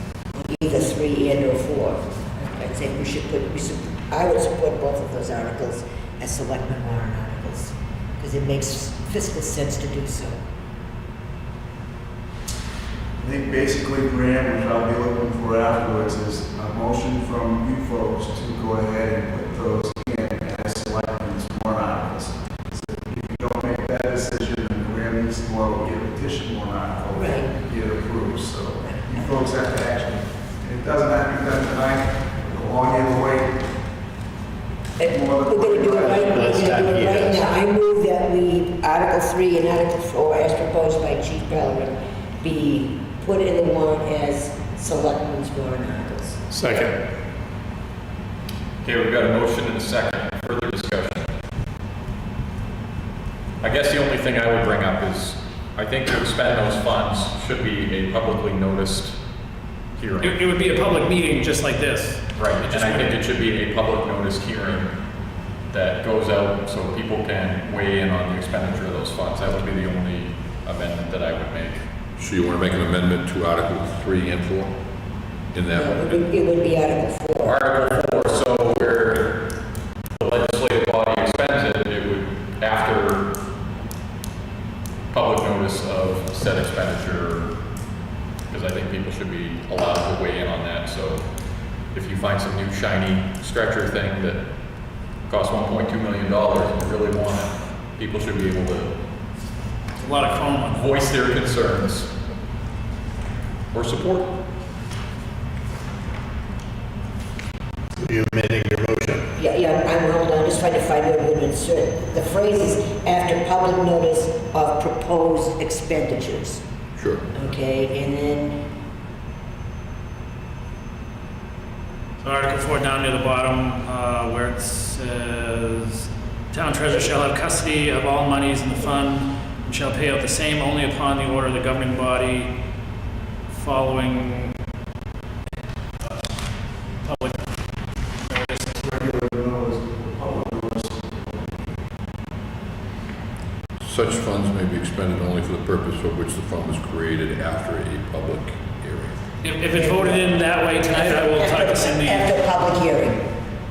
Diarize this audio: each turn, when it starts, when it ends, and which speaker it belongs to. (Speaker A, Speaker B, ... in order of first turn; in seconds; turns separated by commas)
Speaker A: 0.3-10.4, Speaker B: 13.2-33.7, Speaker A: 27.1-27.5, Speaker A: 35.0-46.4, Speaker B: 35.1-36.7, Speaker C: 36.3-37.4, Speaker C: 46.5-47.0, Speaker D: 48.8-51.3, Speaker D: 53.6-59.2, Speaker D: 60.0-60.4, Speaker E: 60.2-63.2, Speaker D: 62.4-64.9, Speaker D: 65.7-71.8, Speaker F: 72.2-74.8, Speaker F: 75.5-76.2, Speaker A: 75.7-77.7, Speaker D: 77.4-79.5, Speaker D: 80.2-83.3, Speaker D: 85.1-87.5, Speaker D: 88.5-91.3, Speaker D: 91.9-94.4, Speaker D: 95.3-98.9, Speaker E: 100.0-100.9, Speaker D: 100.7-102.1, Speaker D: 103.7-104.3, Speaker C: 108.0-109.2, Speaker A: 109.4-116.6, Speaker F: 117.0-117.2, Speaker A: 117.3-118.6, Speaker E: 122.2-132.5, Speaker E: 133.5-134.6, Speaker E: 136.0-136.3, Speaker E: 137.0-137.5, Speaker E: 138.2-138.8, Speaker B: 138.8-141.7, Speaker F: 143.8-149.2, Speaker E: 149.4-152.4, Speaker A: 149.8-150.3, Speaker A: 150.9-153.3